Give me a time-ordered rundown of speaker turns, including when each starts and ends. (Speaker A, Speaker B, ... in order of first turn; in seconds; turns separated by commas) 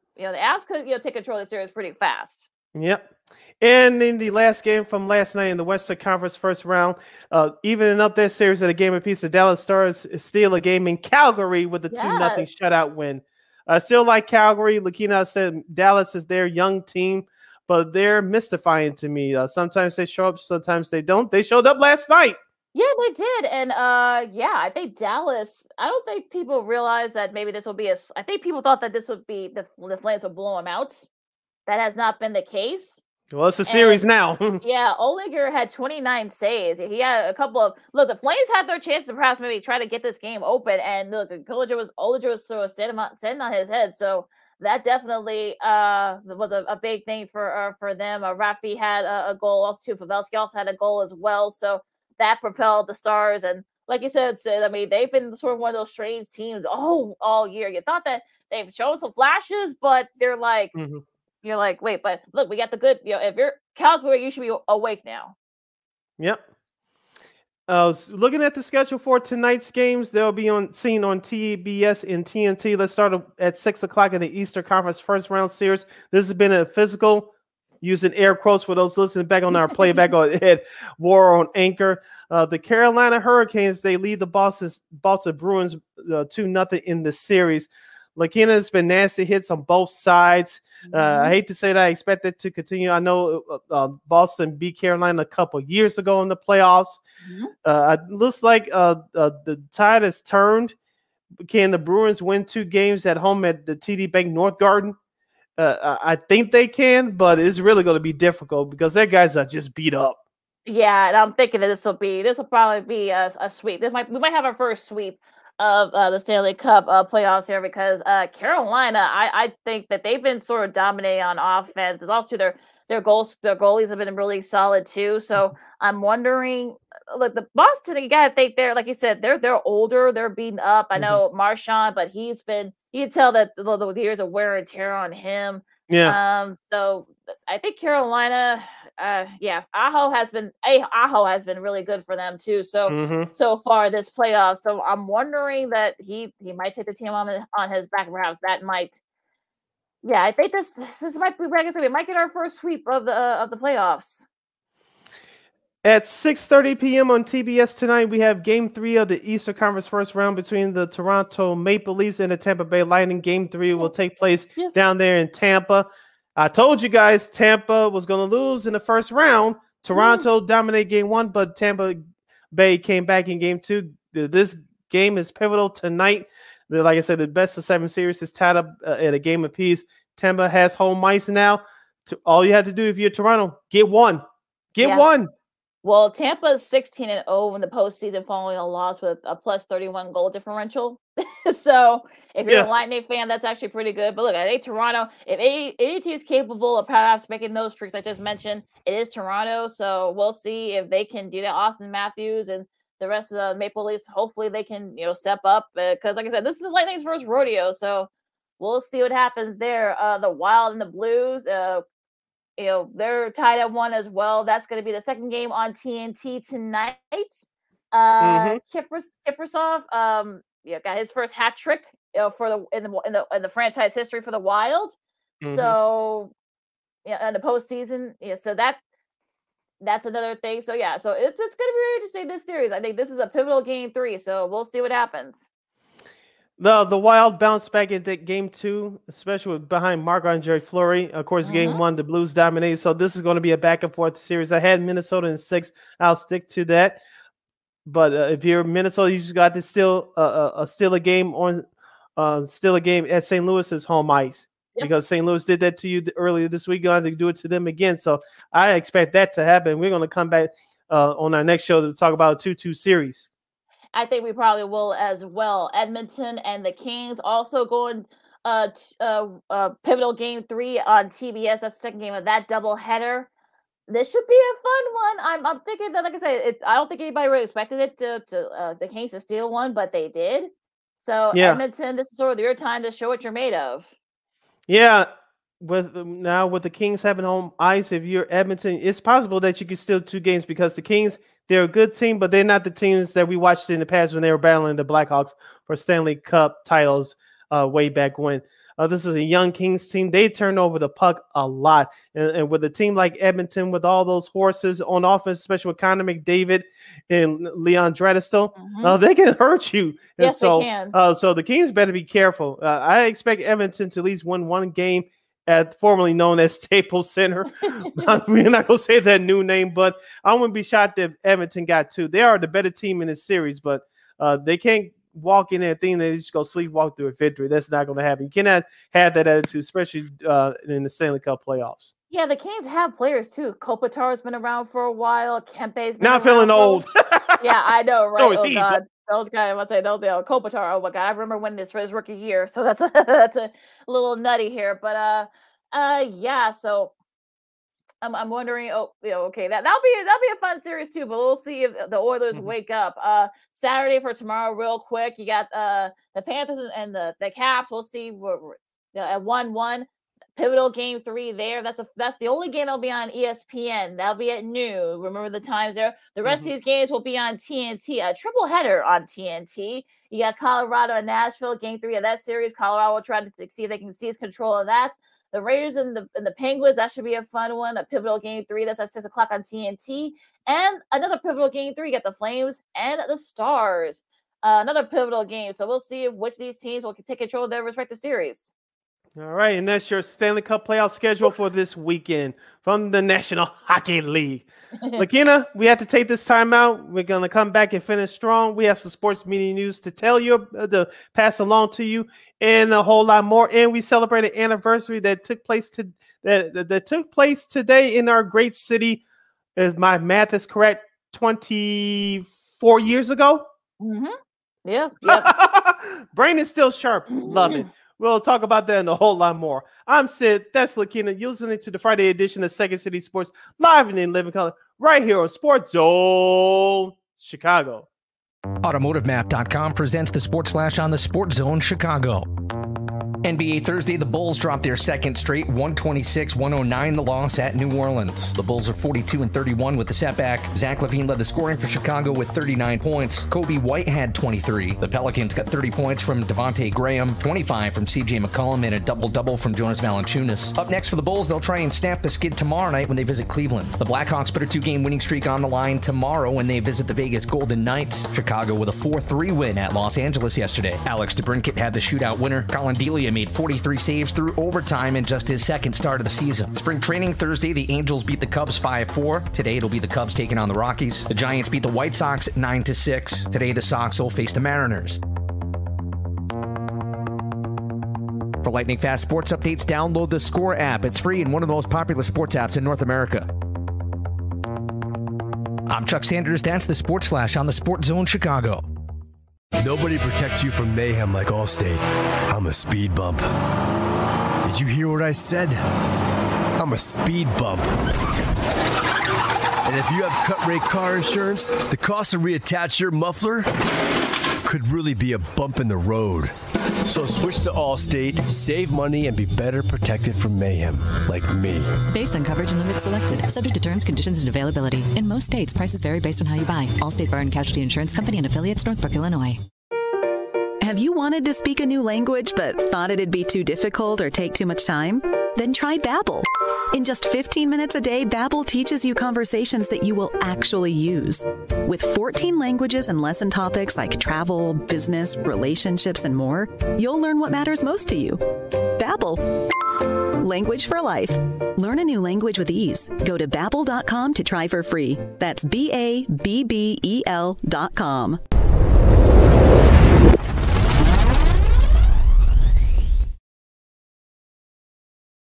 Speaker A: 0.2-2.5, Speaker B: 2.7-22.4, Speaker A: 11.9-12.7, Speaker A: 22.7-31.1, Speaker A: 31.7-33.0, Speaker B: 33.3-34.6, Speaker A: 33.7-34.0, Speaker A: 34.6-60.8, Speaker B: 60.8-61.0, Speaker A: 61.4-65.3, Speaker B: 67.7-77.3, Speaker B: 77.8-97.0, Speaker A: 79.7-80.0, Speaker A: 90.8-91.3, Speaker A: 97.2-97.5, Speaker B: 97.6-100.8, Speaker B: 101.4-105.0, Speaker B: 105.6-110.2, Speaker A: 110.7-149.0, Speaker B: 135.9-136.2, Speaker B: 142.9-143.3, Speaker A: 150.0-154.3, Speaker B: 155.8-172.0, Speaker A: 169.9-170.3, Speaker B: 172.5-185.3, Speaker A: 184.8-185.1, Speaker A: 185.8-208.1, Speaker A: 208.6-211.8, Speaker A: 212.6-226.3, Speaker B: 218.2-218.6, Speaker B: 225.4-225.8, Speaker A: 227.1-228.8, Speaker A: 229.8-235.4, Speaker B: 236.6-247.0, Speaker A: 241.4-241.8, Speaker B: 247.9-251.7, Speaker B: 252.2-263.3, Speaker A: 263.9-273.3, Speaker A: 273.9-283.9, Speaker B: 281.3-281.6, Speaker B: 284.7-285.1, Speaker B: 285.6-331.9, Speaker A: 308.6-309.0, Speaker A: 310.2-310.9, Speaker A: 317.6-318.2, Speaker A: 332.1-336.8, Speaker B: 336.0-337.5, Speaker A: 337.4-346.9, Speaker B: 338.1-338.8, Speaker A: 348.0-388.5, Speaker B: 389.2-409.0, Speaker B: 409.6-413.4, Speaker A: 413.8-415.3, Speaker B: 415.0-427.9, Speaker A: 417.1-417.7, Speaker C: 428.6-432.3, Speaker C: 433.2-475.0, Speaker C: 478.4-483.3, Speaker C: 485.7-488.6, Speaker D: 489.6-493.3, Speaker D: 494.4-495.6, Speaker D: 496.6-497.9, Speaker D: 499.6-503.6, Speaker D: 504.4-506.4, Speaker D: 506.9-511.8, Speaker E: 511.9-519.4, Speaker F: 520.6-538.2, Speaker F: 538.8-539.4, Speaker F: 540.2-548.2